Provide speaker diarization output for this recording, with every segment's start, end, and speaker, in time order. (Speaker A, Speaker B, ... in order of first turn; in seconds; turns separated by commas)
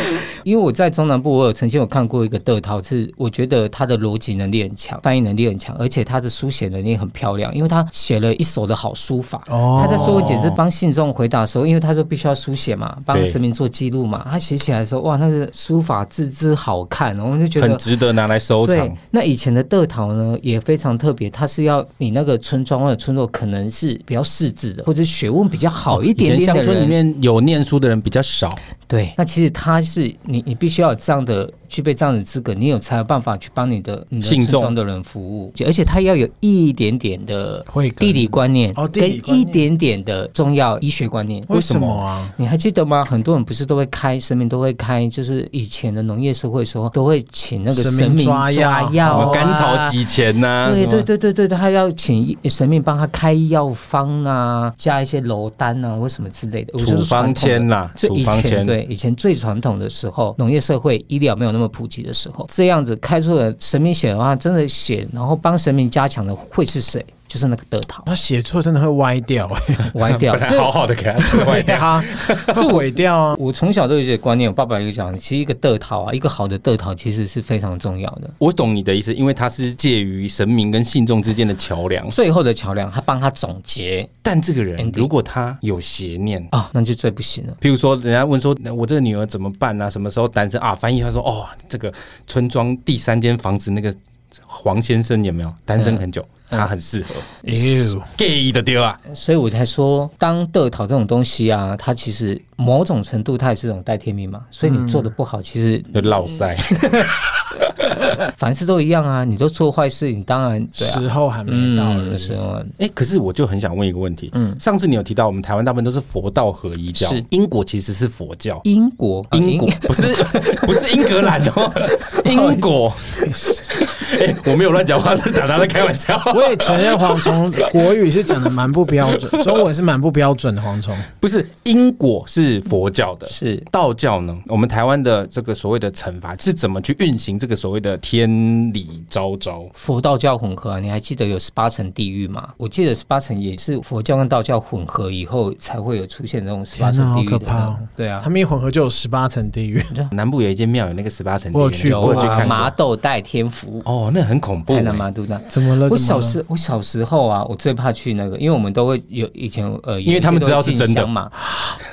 Speaker A: 0.4-17.8, Speaker B: 9.5-10.4, Speaker C: 9.8-10.6, Speaker C: 13.1-13.4, Speaker C: 17.6-19.0, Speaker A: 18.6-26.9, Speaker C: 25.9-28.6, Speaker A: 28.9-41.5, Speaker C: 34.2-34.7, Speaker B: 37.7-39.6, Speaker B: 41.5-42.3, Speaker C: 41.5-42.0, Speaker A: 42.4-50.0, Speaker B: 47.7-49.4, Speaker C: 49.0-51.1, Speaker A: 50.6-68.1, Speaker C: 56.8-58.8, Speaker B: 68.0-69.9, Speaker A: 69.9-70.7, Speaker C: 70.0-72.6, Speaker B: 71.2-73.4, Speaker A: 72.5-78.3, Speaker C: 78.4-82.1, Speaker A: 82.1-84.1, Speaker C: 84.2-86.5, Speaker A: 84.8-85.1, Speaker A: 86.5-87.6, Speaker C: 87.6-94.0, Speaker C: 94.5-97.2, Speaker A: 95.8-96.7, Speaker A: 97.4-97.9, Speaker B: 97.5-98.1, Speaker C: 98.1-99.0, Speaker A: 99.1-107.1, Speaker B: 104.6-105.1, Speaker C: 105.9-107.2, Speaker A: 108.2-112.7, Speaker B: 110.8-112.4, Speaker C: 112.8-118.6, Speaker A: 117.0-117.2, Speaker A: 118.6-121.3, Speaker C: 119.3-129.6, Speaker A: 121.9-122.7, Speaker B: 123.2-123.8, Speaker B: 126.3-131.1, Speaker C: 131.2-139.7, Speaker A: 133.3-133.7, Speaker A: 139.8-148.3, Speaker B: 146.7-149.9, Speaker C: 150.1-152.7, Speaker B: 151.5-152.7, Speaker A: 151.8-153.8, Speaker C: 153.8-155.0, Speaker A: 154.7-161.3, Speaker B: 155.5-156.4, Speaker C: 160.1-161.1